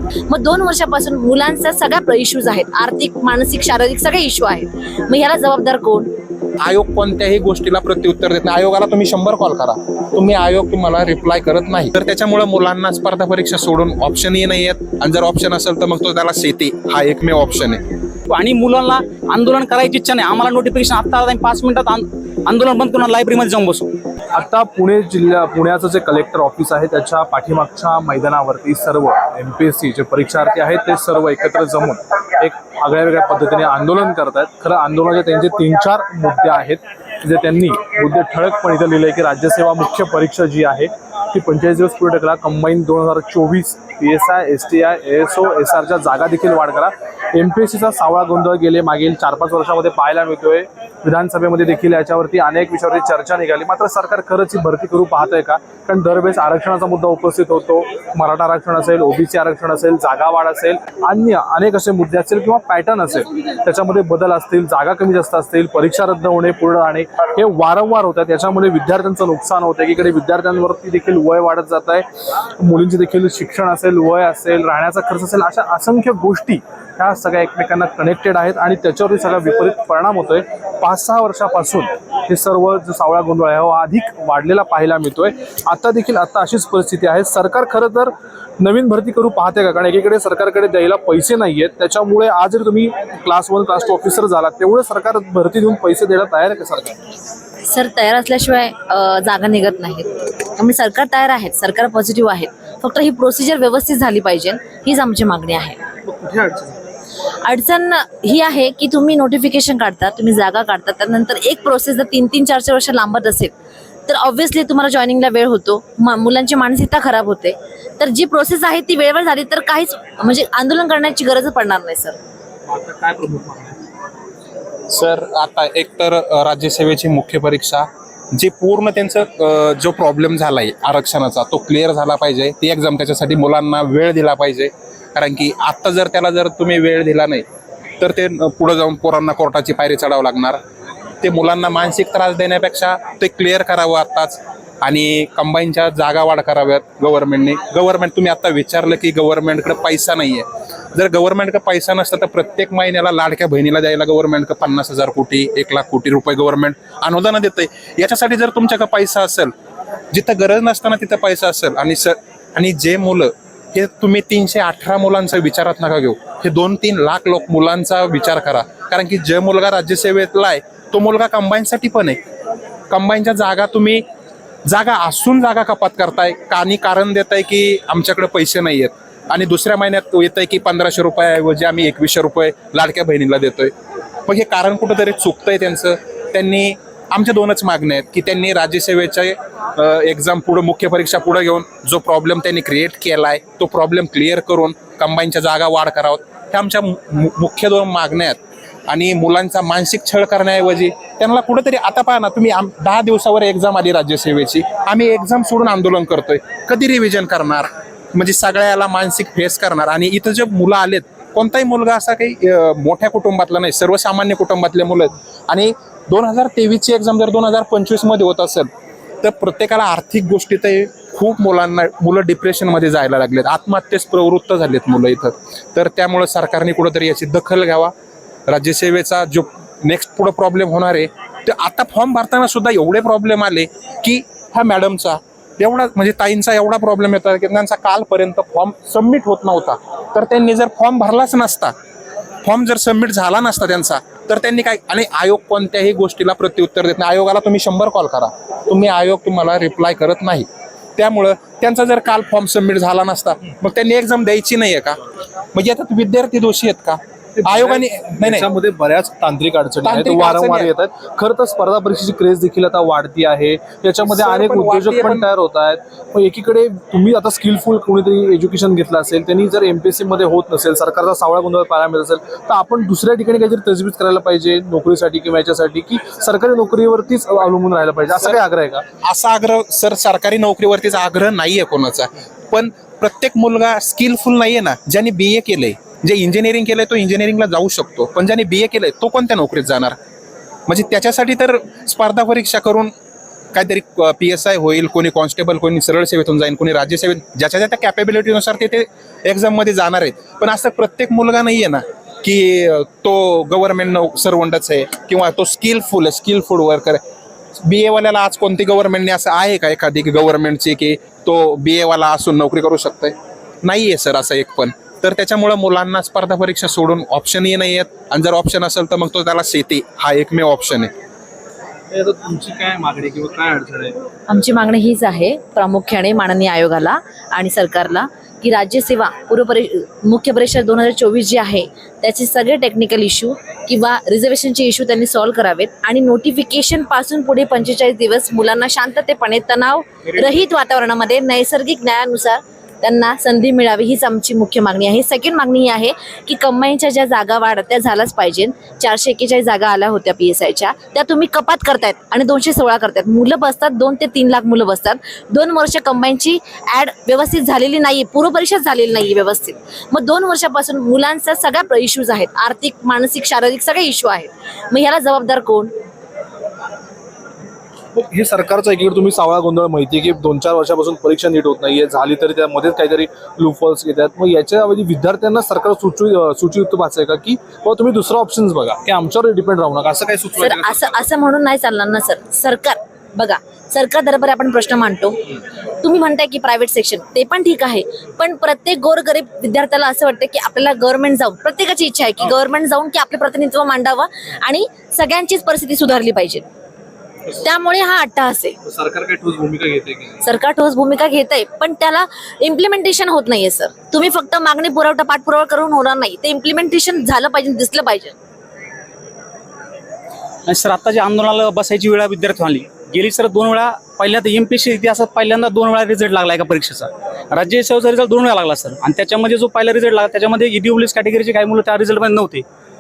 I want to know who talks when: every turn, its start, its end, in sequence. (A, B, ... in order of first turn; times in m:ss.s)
0:00.3-0:06.1 A
0:06.6-0:17.8 B
0:18.3-0:23.9 C
0:24.3-1:12.1 D
1:12.6-1:37.0 D
1:37.7-1:45.8 A
1:46.0-1:46.8 D
1:47.4-1:53.5 A
1:54.1-2:02.2 A
2:02.7-2:03.8 D
2:04.9-2:17.5 B
2:18.0-2:20.6 B
2:21.2-2:39.5 B
2:40.1-2:52.2 B
2:52.9-2:54.0 B
2:54.6-3:03.7 B
3:04.3-3:38.7 B
3:39.2-3:47.9 B
3:48.5-4:01.7 B
4:02.4-4:15.0 B
4:15.5-4:18.5 B
4:17.4-4:38.8 D
4:19.8-4:20.7 B
4:24.1-4:25.3 B
4:39.0-4:50.0 B
4:50.7-4:52.9 B
4:53.5-5:07.0 B
5:07.6-5:20.9 B
5:21.9-5:24.0 D
5:24.3-6:05.7 A
6:08.0-6:21.1 D
6:20.4-6:36.5 A
6:37.3-6:38.6 A
6:38.6-6:40.3 D
6:40.2-6:48.2 A
6:50.5-7:02.4 C